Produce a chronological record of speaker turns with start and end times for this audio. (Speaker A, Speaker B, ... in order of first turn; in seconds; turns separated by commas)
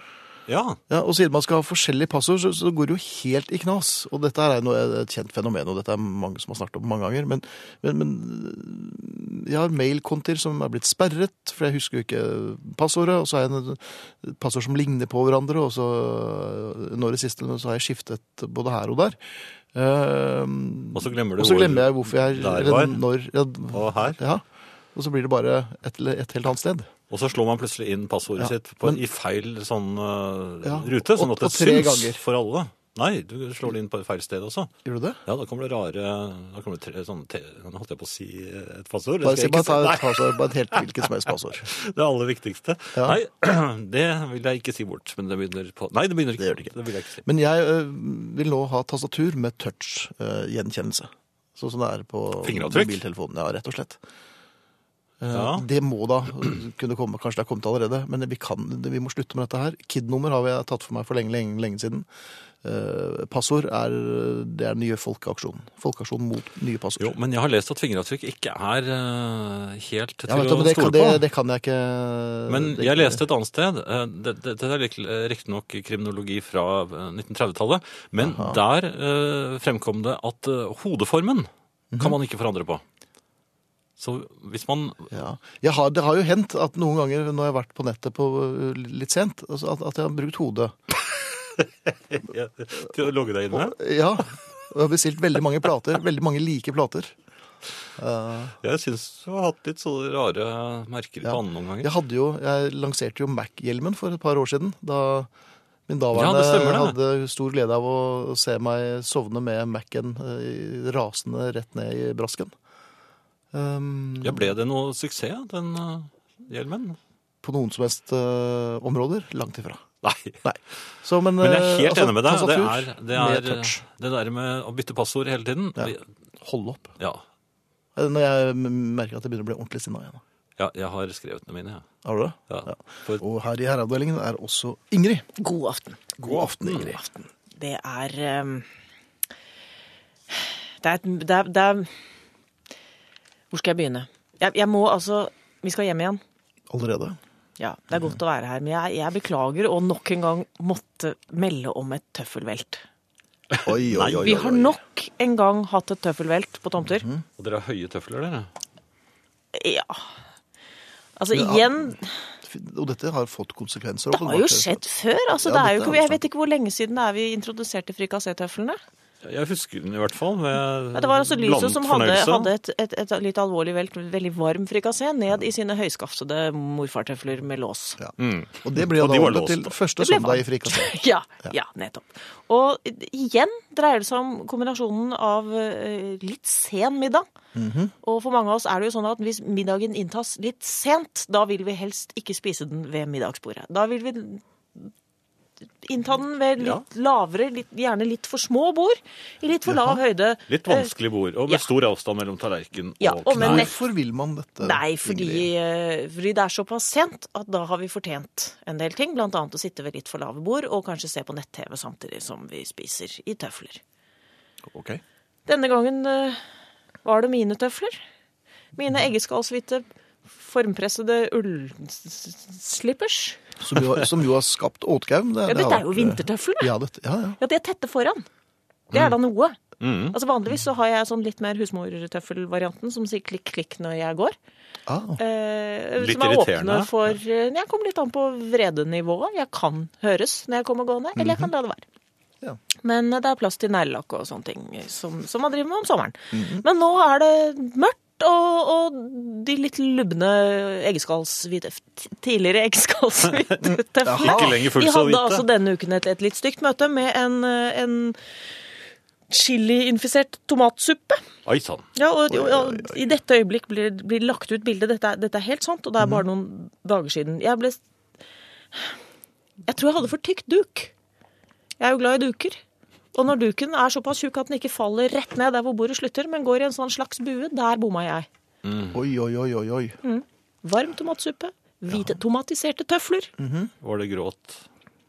Speaker A: 0.5-0.8, Speaker B: 0.9-19.2, Speaker B: 19.7-24.4, Speaker A: 20.9-23.0, Speaker A: 23.7-24.2, Speaker B: 24.9-26.9, Speaker A: 27.1-34.7, Speaker B: 28.4-29.0, Speaker B: 30.6-32.2, Speaker B: 34.9-35.2, Speaker A: 35.3-47.2, Speaker B: 39.2-41.7, Speaker B: 43.0-43.2, Speaker B: 46.4-46.7, Speaker B: 47.2-54.0, Speaker A: 52.4-53.0, Speaker B: 55.2-62.1, Speaker A: 55.3-55.6, Speaker B: 62.6-67.1, Speaker A: 67.0-71.2, Speaker B: 70.3-73.2, Speaker A: 72.5-82.8, Speaker B: 78.2-78.6, Speaker B: 81.9-82.2, Speaker A: 84.0-85.2, Speaker B: 85.1-90.7, Speaker A: 91.1-93.8, Speaker B: 93.5-97.1, Speaker B: 98.0-98.6, Speaker A: 98.6-101.9, Speaker B: 101.2-105.3, Speaker B: 105.9-112.5, Speaker A: 106.1-107.0, Speaker B: 113.5-114.6, Speaker A: 114.2-117.0, Speaker B: 117.4-119.8, Speaker A: 120.0-120.4, Speaker B: 120.4-123.8, Speaker A: 121.4-126.0, Speaker B: 125.8-127.0, Speaker A: 127.0-127.2, Speaker B: 128.0-130.2, Speaker A: 130.6-131.9, Speaker B: 132.0-135.3, Speaker A: 132.5-133.2, Speaker C: 135.4-136.0, Speaker B: 136.2-137.0, Speaker A: 136.3-137.0, Speaker C: 137.0-138.7, Speaker C: 140.3-142.0, Speaker C: 143.5-146.2, Speaker B: 146.7-147.2, Speaker C: 147.6-152.8, Speaker A: 153.6-154.6, Speaker B: 153.6-154.8, Speaker C: 154.2-157.1, Speaker A: 157.4-158.5, Speaker C: 159.5-160.1, Speaker C: 161.2-162.2, Speaker B: 161.3-164.8, Speaker C: 164.1-168.8, Speaker B: 165.3-166.2, Speaker A: 169.2-172.5, Speaker C: 170.9-178.0, Speaker B: 178.0-180.9, Speaker A: 178.2-179.8, Speaker C: 180.0-187.3, Speaker B: 187.6-187.9, Speaker C: 188.0-194.9, Speaker C: 195.8-200.9, Speaker A: 196.6-196.8, Speaker B: 199.7-200.0, Speaker A: 200.5-203.7, Speaker C: 203.0-203.8, Speaker B: 203.3-205.5, Speaker C: 204.6-213.8, Speaker B: 214.7-215.0, Speaker C: 215.5-216.4, Speaker C: 217.0-218.0, Speaker C: 218.8-223.4, Speaker B: 223.6-227.4, Speaker C: 225.5-226.7, Speaker C: 227.4-228.2, Speaker C: 228.9-229.6, Speaker A: 229.8-230.2, Speaker C: 230.1-234.4, Speaker B: 234.9-235.2, Speaker C: 235.2-241.8, Speaker A: 236.0-237.2, Speaker B: 241.2-241.5, Speaker C: 242.8-258.2, Speaker B: 246.3-246.7, Speaker B: 253.7-254.5, Speaker A: 254.1-255.5, Speaker C: 259.3-261.2, Speaker A: 261.4-261.9, Speaker C: 262.0-267.8, Speaker B: 262.3-263.0, Speaker C: 269.7-270.9, Speaker C: 271.8-272.6, Speaker C: 273.1-278.3, Speaker A: 278.6-279.0, Speaker B: 278.9-280.0, Speaker C: 280.0-283.3, Speaker B: 283.4-283.7, Speaker A: 283.8-284.6